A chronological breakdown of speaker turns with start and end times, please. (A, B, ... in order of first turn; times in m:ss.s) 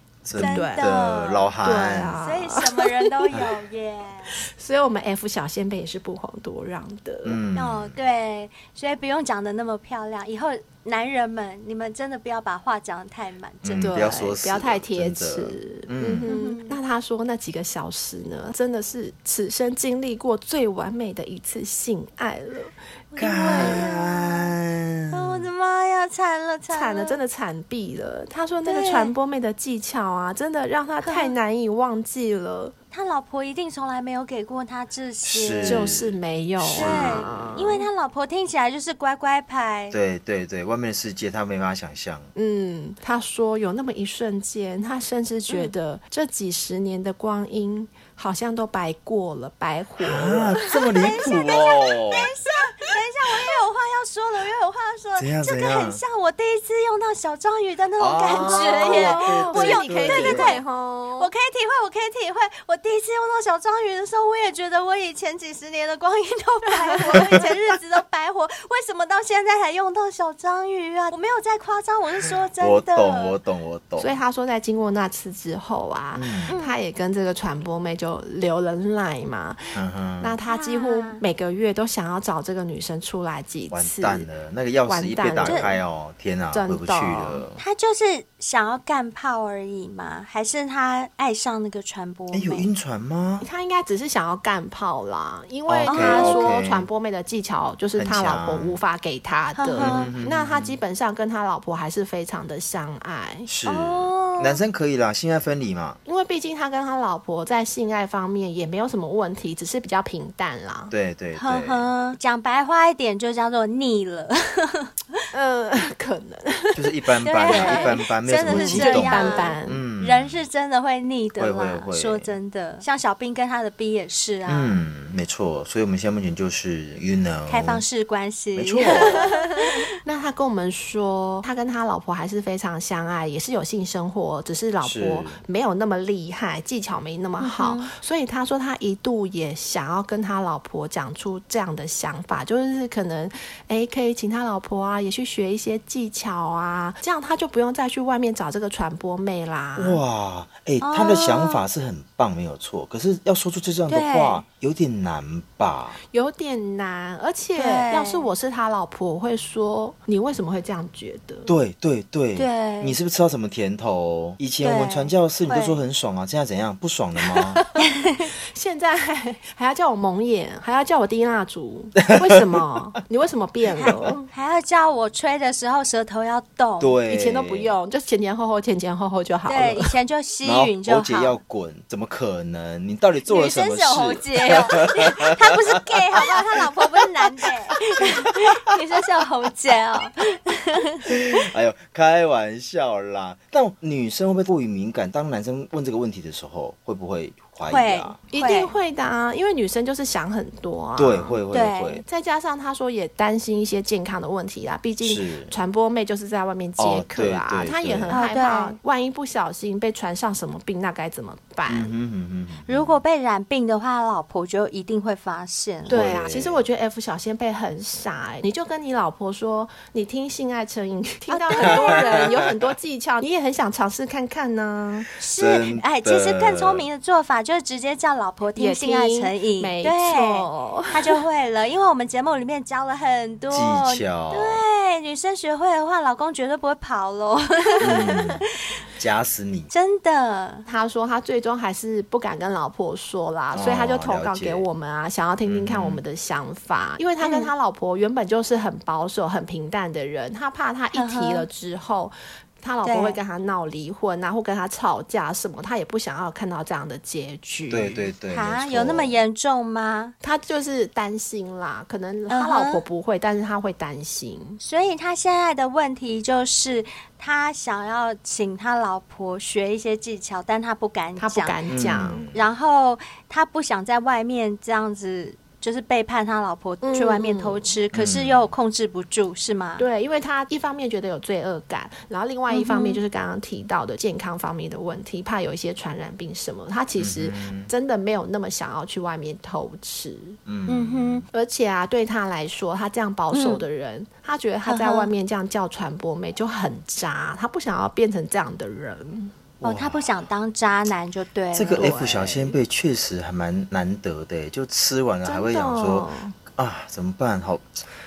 0:00.2-0:02.2 A
0:00.4-0:04.4 B
0:00.4-0:00.9 C
0:01.6-0:03.1 C
0:04.4-0:07.4 C
0:07.2-0:07.9 A
0:07.6-0:14.0 B
0:13.6-0:16.3 A
0:13.8-0:22.7 C
0:16.2-0:16.8 B
0:23.1-0:24.5 B
0:23.2-0:25.5 A
0:23.4-0:23.9 C
0:25.1-0:27.2 B
0:26.7-0:32.7 C
0:28.6-0:29.1 B
0:31.0-0:31.4 B
0:32.9-0:36.0 B
0:35.2-0:37.6 A
0:35.6-0:37.9 C
0:36.7-0:40.0 B
0:39.9-0:42.3 A
0:42.4-0:50.8 C
0:50.0-0:52.3 A
0:51.0-1:00.6 B
0:55.2-0:56.0 A
0:58.0-1:00.6 A
0:58.4-1:01.3 C
1:01.2-1:13.4 B
1:12.6-1:14.1 A
1:14.0-1:24.3 C
1:16.1-1:16.5 A
1:16.5-1:16.8 B
1:19.7-1:20.4 A
1:20.5-1:21.2 B
1:23.7-1:27.6 A
1:24.9-1:25.8 C
1:25.4-1:25.7 B
1:26.5-1:27.4 C
1:27.6-1:32.7 B
1:32.3-1:33.4 A
1:33.4-1:43.5 C
1:35.7-1:36.9 A
1:35.9-1:36.6 B
1:38.0-1:38.8 A
1:39.6-1:40.1 B
1:39.8-1:40.8 A
1:43.5-1:46.0 A
1:43.6-1:44.6 B
1:46.0-1:50.9 C
1:50.9-1:51.9 A
1:51.4-1:54.9 B
1:55.3-1:59.8 C
1:56.8-2:00.4 A
1:57.2-2:04.8 B
2:01.4-2:02.4 A
2:04.5-2:07.8 A
2:07.5-2:09.9 B
2:08.6-2:09.2 A
2:08.8-2:30.0 C
2:14.8-2:15.4 A
2:17.4-2:17.9 B
2:29.8-2:36.0 A
2:30.8-2:31.6 B
2:33.9-2:34.4 B
2:36.1-2:41.5 C
2:37.5-2:38.3 B
2:41.5-2:47.6 A
2:42.4-2:43.0 B
2:44.6-2:45.8 B
2:47.8-2:48.3 B
2:48.5-2:54.3 C
2:54.3-2:57.0 B
2:56.8-2:57.8 A
2:57.1-2:59.9 C
2:59.5-3:01.4 B
3:00.4-3:05.5 A
3:03.2-3:11.1 B
3:11.0-3:18.2 A
3:17.6-3:18.7 B
3:18.3-3:21.4 C
3:21.0-3:22.0 A
3:21.5-3:22.0 B
3:22.0-3:31.9 C
3:25.0-3:25.5 A
3:26.8-3:28.2 A
3:28.1-3:28.8 B
3:31.6-3:33.0 A
3:32.6-3:35.9 B
3:35.9-3:36.6 A
3:35.9-3:45.1 C
3:41.3-3:42.4 B
3:41.6-3:42.0 A
3:45.2-3:58.3 B
3:45.4-3:46.9 A
3:48.6-3:51.2 C
3:53.5-3:54.6 A
3:57.8-3:58.4 A
3:59.0-3:59.7 A
3:59.7-4:00.6 B
4:00.6-4:18.1 C
4:03.5-4:04.7 A
4:05.4-4:06.0 A
4:07.2-4:07.5 B
4:10.9-4:11.5 B
4:12.8-4:13.2 B
4:17.7-4:19.1 A
4:18.3-4:20.1 B
4:20.2-4:24.6 C
4:22.3-4:22.8 B
4:24.6-4:31.6 B
4:31.2-4:32.3 C
4:31.7-4:32.4 A
4:32.3-4:39.8 B
4:36.8-4:37.8 C
4:37.9-4:38.4 A
4:39.8-4:59.3 C
4:42.5-4:43.0 B
4:47.0-4:47.7 A
4:50.5-4:51.2 A
4:53.3-4:53.6 B
4:54.6-4:55.1 B
4:59.6-5:00.1 A
4:59.6-5:02.0 B
5:01.5-5:07.9 A
5:01.7-5:02.5 C
5:05.2-5:06.3 C